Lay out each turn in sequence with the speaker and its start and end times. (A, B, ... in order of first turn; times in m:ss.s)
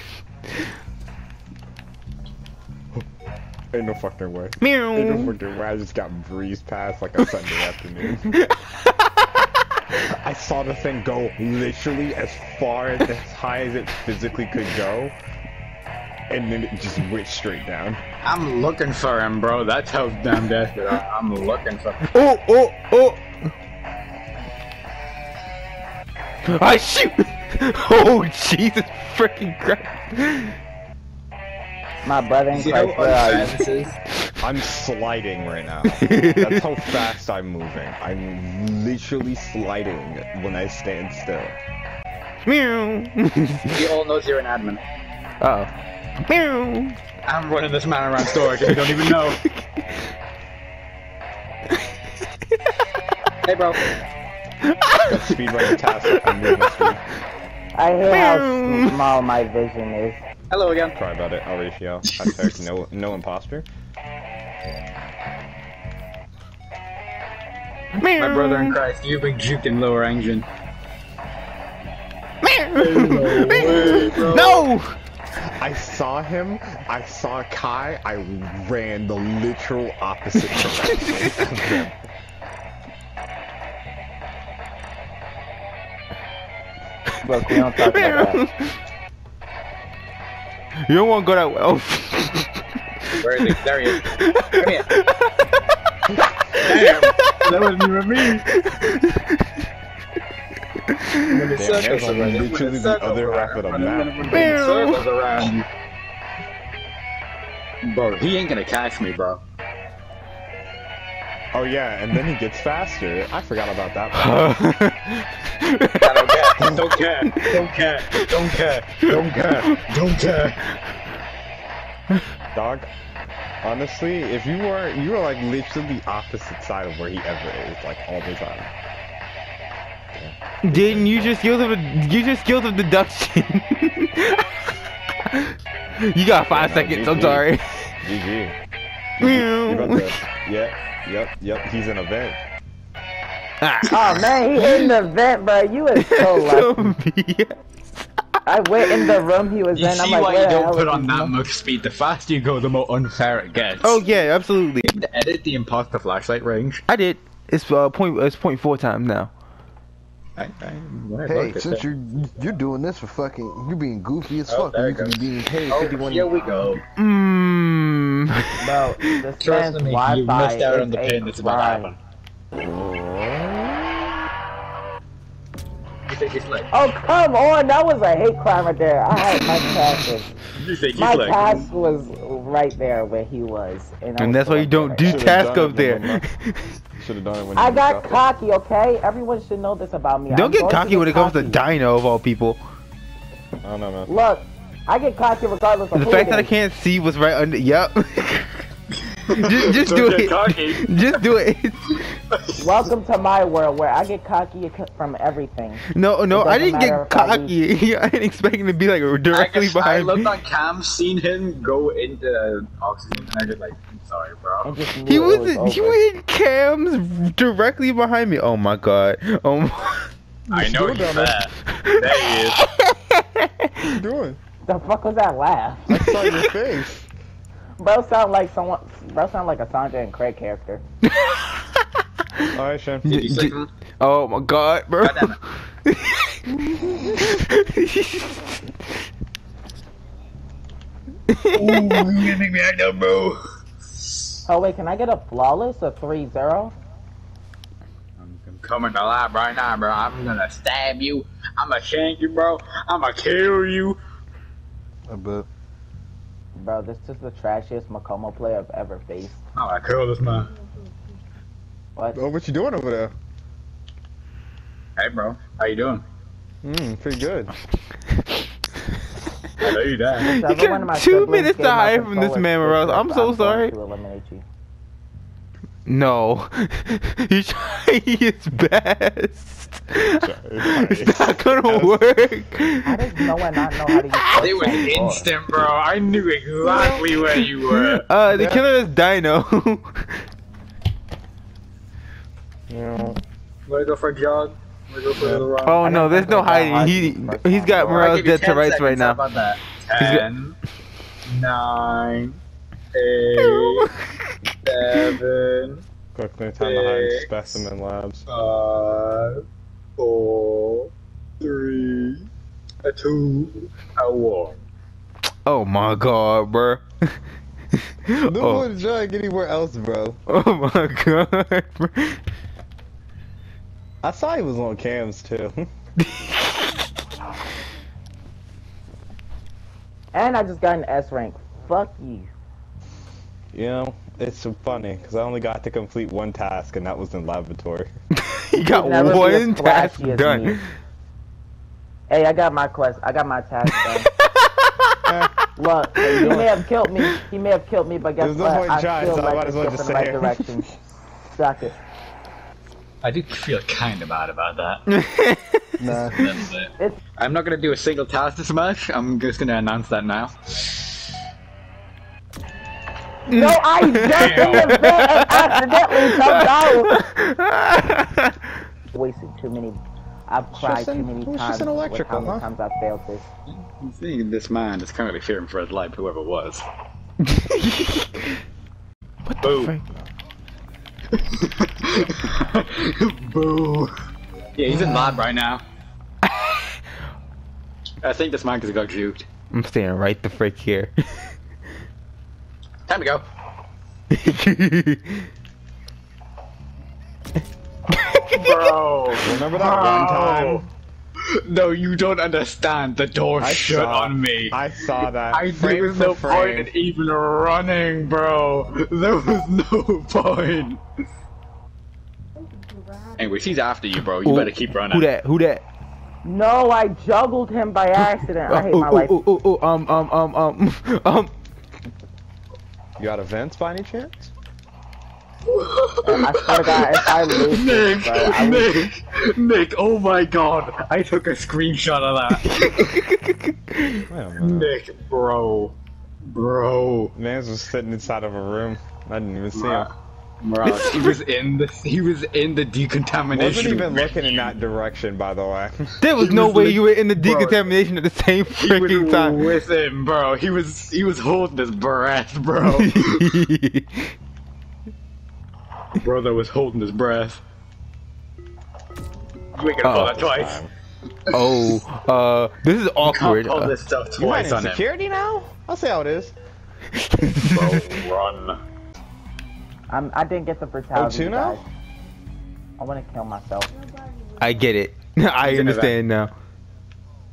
0:03.7-0:08.5 A
0:04.6-0:05.3 B
0:08.3-0:09.3 B
0:09.9-0:15.2 A
0:16.3-0:18.0 A
0:18.2-0:22.0 C
0:22.0-0:23.5 B
0:26.4-0:30.5 B
0:32.0-0:33.6 D
0:32.5-0:34.0 C
0:34.4-0:41.6 A
0:35.9-0:36.7 B
0:42.4-0:43.8 B
0:43.7-0:44.8 C
0:45.4-0:45.7 B
0:46.2-0:47.0 B
0:47.3-0:49.4 C
0:48.3-0:50.1 B
0:53.4-0:53.9 C
0:54.6-0:56.7 B
0:55.1-0:57.0 A
0:57.8-1:00.2 D
0:58.1-0:59.0 B
1:00.5-1:01.0 C
1:00.9-1:03.6 A
1:02.1-1:02.5 C
1:07.9-1:08.8 B
1:08.2-1:10.5 C
1:12.4-1:15.0 B
1:12.8-1:14.6 C
1:15.6-1:21.9 A
1:20.6-1:21.8 B
1:27.2-1:28.4 D
1:27.8-1:28.8 B
1:30.9-1:32.5 B
1:33.2-1:34.9 C
1:34.1-1:35.4 B
1:36.5-1:38.5 C
1:36.6-1:37.3 B
1:38.5-1:39.5 B
1:40.9-1:41.3 B
1:41.2-1:45.7 C
1:41.5-1:44.5 A
1:44.2-1:45.1 B
1:47.8-1:49.4 C
1:51.5-1:54.6 A
1:54.2-1:56.8 B
1:55.9-2:00.6 C
1:57.3-1:57.6 B
1:59.0-1:59.8 B
2:02.5-2:02.9 A
2:03.6-2:08.7 A
2:10.1-2:11.3 A
2:10.6-2:14.5 B
2:15.2-2:17.9 B
2:16.5-2:18.5 A
2:19.2-2:22.4 A
2:19.2-2:20.2 B
2:23.6-2:24.9 B
2:23.9-2:27.0 D
2:26.0-2:27.5 B
2:28.4-2:31.3 D
2:28.8-2:29.1 B
2:29.7-2:34.0 C
2:33.8-2:34.9 B
2:34.8-2:36.8 C
2:36.9-2:39.3 B
2:40.4-2:41.9 C
2:41.3-2:45.6 E
2:44.5-2:46.8 C
2:45.4-2:46.8 A
2:47.0-2:48.8 B
2:48.6-2:51.9 D
2:49.4-2:52.0 C
2:52.6-2:54.2 A
2:56.1-2:56.7 C
2:56.7-3:00.3 D
3:00.6-3:01.6 C
3:00.9-3:05.4 D
3:04.2-3:06.6 B
3:05.0-3:06.2 A
3:07.0-3:08.2 A
3:07.6-3:11.6 D
3:10.3-3:12.6 B
3:13.6-3:14.1 A
3:14.1-3:16.5 D
3:15.9-3:18.6 B
3:19.1-3:21.3 C
3:19.3-3:22.0 B
3:22.3-3:22.6 C
3:22.6-3:27.5 D
3:25.9-3:30.3 B
3:29.3-3:34.7 C
3:34.6-3:36.0 D
3:35.1-3:40.1 B
3:40.5-3:41.4 A
3:40.5-3:42.6 C
3:41.8-3:44.0 B
3:43.9-3:44.4 A
3:44.6-3:46.0 D
3:45.9-3:47.0 A
3:46.1-3:46.5 B
3:47.8-3:50.8 D
3:51.0-3:51.8 B
3:52.5-3:53.2 A
3:53.0-3:53.7 C
3:53.0-3:58.7 B
3:55.0-3:55.4 C
4:01.3-4:02.1 B
4:01.5-4:03.4 C
4:04.0-4:04.3 C
4:04.4-4:06.7 D
4:08.2-4:14.0 C
4:15.1-4:15.4 E
4:16.6-4:19.4 D
4:19.5-4:20.5 C
4:22.1-4:23.1 A
4:25.0-4:26.0 C
4:26.6-4:27.5 A
4:29.6-4:30.3 C
4:30.2-4:33.7 B
4:30.2-4:34.4 D
4:35.8-4:43.4 B
4:40.0-4:42.0 A
4:42.8-4:45.3 D
4:43.9-4:44.7 B
4:44.4-4:48.0 C
4:46.7-4:47.0 A
4:47.6-4:50.2 B
4:48.3-4:48.6 A
4:52.7-4:53.2 A
4:53.6-4:55.8 C
4:55.2-4:55.5 A
4:55.6-4:59.2 B
4:55.8-4:58.2 D
4:57.9-5:00.6 C
5:00.0-5:00.2 B
5:01.2-5:02.4 C
5:02.9-5:03.9 C
5:03.4-5:04.3 B
5:04.6-5:05.8 C
5:06.1-5:08.2 A
5:06.6-5:07.3 C
5:08.3-5:09.4 C
5:10.0-5:12.3 C
5:12.8-5:14.5 C
5:15.4-5:17.1 B
5:17.7-5:18.6 B
5:18.2-5:20.2 A
5:20.3-5:22.2 B
5:24.0-5:25.7 A
5:26.0-5:26.9 B
5:30.1-5:32.3 D
5:33.5-5:37.9 A
5:38.1-5:40.6 B
5:38.7-5:40.6 D
5:42.1-5:44.1 D
5:44.4-5:44.9 B
5:45.6-5:51.8 D
5:46.0-5:46.4 B
5:48.2-5:50.4 A
5:53.0-5:54.9 C
5:54.9-5:55.8 B
5:55.8-5:56.2 E
5:55.9-6:00.8 C
6:03.3-6:07.0 D
6:03.3-6:08.5 B
6:04.1-6:04.8 C
6:08.9-6:13.3 D
6:10.5-6:12.5 A
6:13.5-6:16.6 C
6:17.2-6:18.4 B
6:19.2-6:19.9 B
6:19.4-6:19.7 C
6:21.1-6:23.9 C
6:24.6-6:25.6 C
6:26.2-6:26.7 B
6:28.0-6:29.2 C
6:29.5-6:31.3 B
6:32.9-6:33.2 C
6:34.1-6:35.3 B
6:37.9-6:38.6 B
6:38.3-6:40.6 C
6:39.2-6:40.7 A
6:41.2-6:50.8 C
6:43.4-6:46.7 A
6:53.1-6:55.0 C
6:54.2-6:55.6 B
6:56.2-6:59.2 D
6:58.5-7:01.3 B
7:03.0-7:04.3 A
7:05.4-7:13.0 C
7:06.0-7:08.7 D
7:12.4-7:14.1 B
7:14.1-7:14.7 A
7:14.4-7:17.1 C
7:17.1-7:19.9 A
7:19.5-7:19.9 C
7:20.4-7:24.5 C
7:20.6-7:21.2 B
7:23.3-7:26.0 A
7:26.0-7:29.4 B
7:26.2-7:27.7 C
7:28.5-7:33.4 C
7:32.6-7:34.1 B
7:36.0-7:37.4 C
7:39.5-7:40.6 C
7:39.8-7:40.2 B
7:39.9-7:40.7 A
7:41.3-7:41.8 C
7:41.3-7:43.7 B
7:43.0-7:44.8 C
7:44.2-7:46.3 A
7:46.9-7:48.0 B
7:47.3-7:48.6 C
7:49.9-7:51.6 D
7:50.9-7:51.6 A
7:52.8-7:53.7 D
7:54.4-7:56.3 B
7:55.4-7:56.0 C